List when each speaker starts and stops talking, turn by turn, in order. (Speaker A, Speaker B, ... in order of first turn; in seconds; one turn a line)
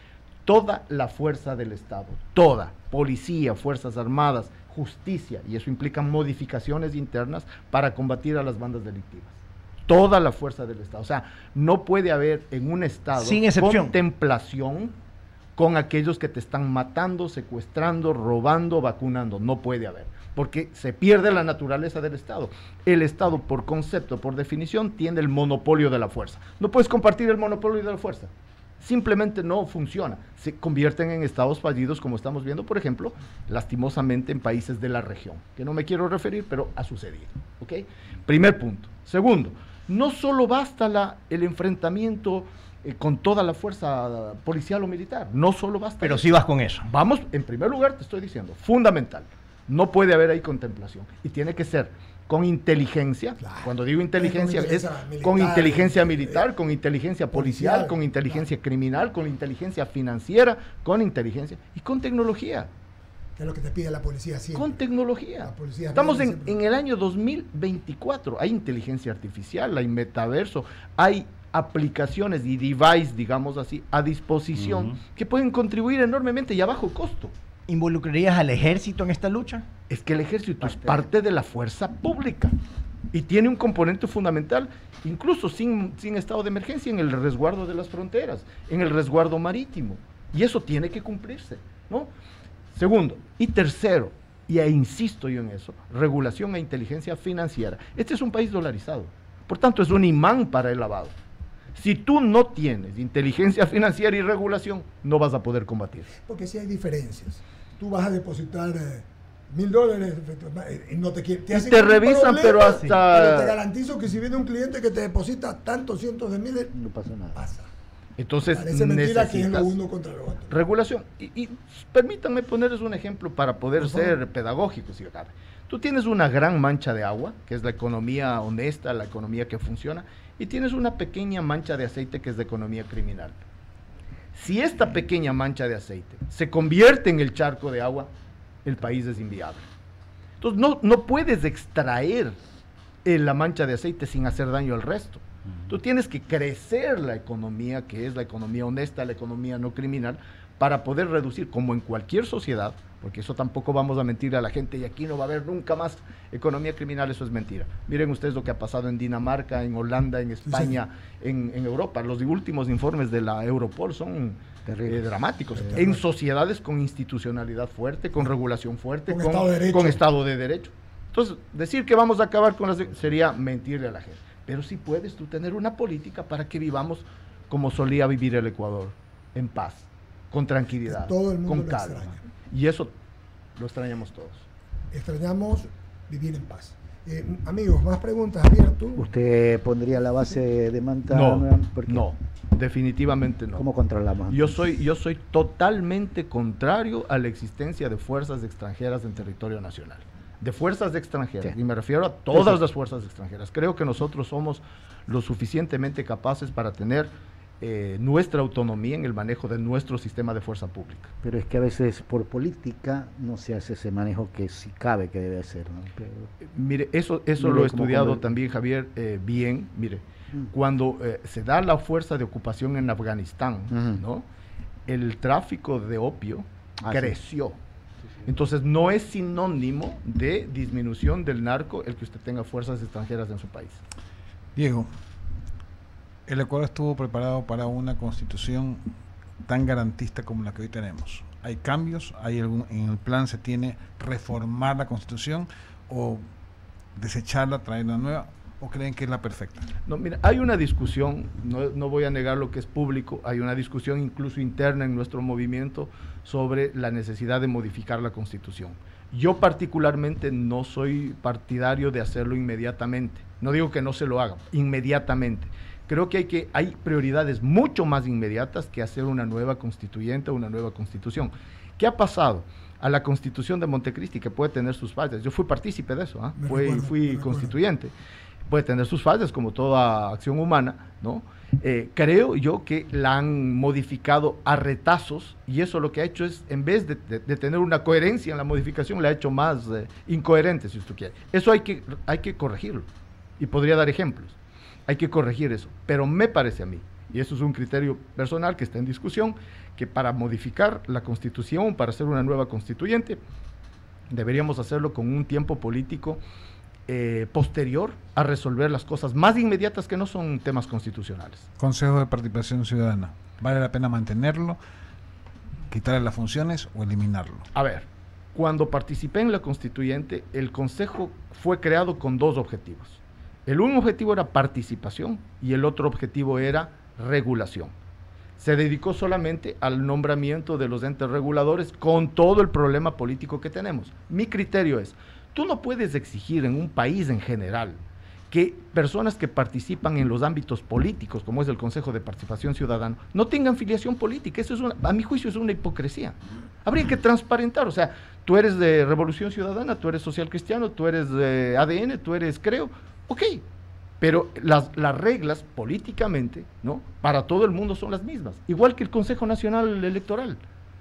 Speaker A: 0.5-14.9
Speaker B: 13.1-13.9
Speaker A: 15.6-62.7
Speaker B: 46.0-46.9
Speaker C: 53.4-56.4
Speaker C: 57.3-58.4
Speaker C: 63.4-64.8
Speaker A: 64.5-77.3
Speaker C: 65.4-66.6
Speaker B: 77.7-79.7
Speaker A: 79.9-82.5
Speaker D: 80.7-81.0
Speaker A: 83.1-92.1
Speaker A: 92.7-101.1
Speaker A: 101.8-106.1
Speaker C: 106.2-116.7
Speaker A: 111.5-113.5
Speaker D: 116.7-117.4
Speaker C: 117.3-117.7
Speaker A: 118.2-119.7
Speaker C: 118.5-120.5
Speaker A: 120.5-133.4
Speaker C: 123.8-124.2
Speaker A: 134.3-138.1
Speaker A: 138.6-139.7
Speaker A: 140.4-142.4
Speaker A: 143.0-182.9
Speaker C: 160.4-160.8
Speaker D: 164.6-165.8
Speaker C: 165.7-166.0
Speaker C: 169.1-170.0
Speaker C: 180.8-182.2
Speaker A: 183.6-184.4
Speaker C: 184.9-189.1
Speaker D: 188.9-192.1
Speaker A: 191.1-193.7
Speaker D: 193.5-194.6
Speaker A: 194.3-211.1
Speaker D: 202.3-202.6
Speaker D: 211.2-216.3
Speaker A: 216.4-224.2
Speaker D: 217.4-218.3
Speaker D: 223.7-224.0
Speaker A: 224.9-227.6
Speaker D: 226.8-227.2
Speaker A: 228.2-233.8
Speaker E: 234.6-234.9
Speaker E: 236.3-238.8
Speaker E: 239.4-246.2
Speaker E: 246.9-249.7
Speaker A: 249.9-277.9
Speaker C: 276.4-277.5
Speaker A: 278.5-292.9
Speaker A: 293.4-294.4
Speaker A: 294.9-303.2
Speaker A: 304.1-306.2
Speaker A: 306.9-311.4
Speaker E: 311.6-314.6
Speaker E: 315.7-317.5
Speaker A: 317.5-327.7
Speaker A: 328.4-353.4
Speaker A: 354.0-360.4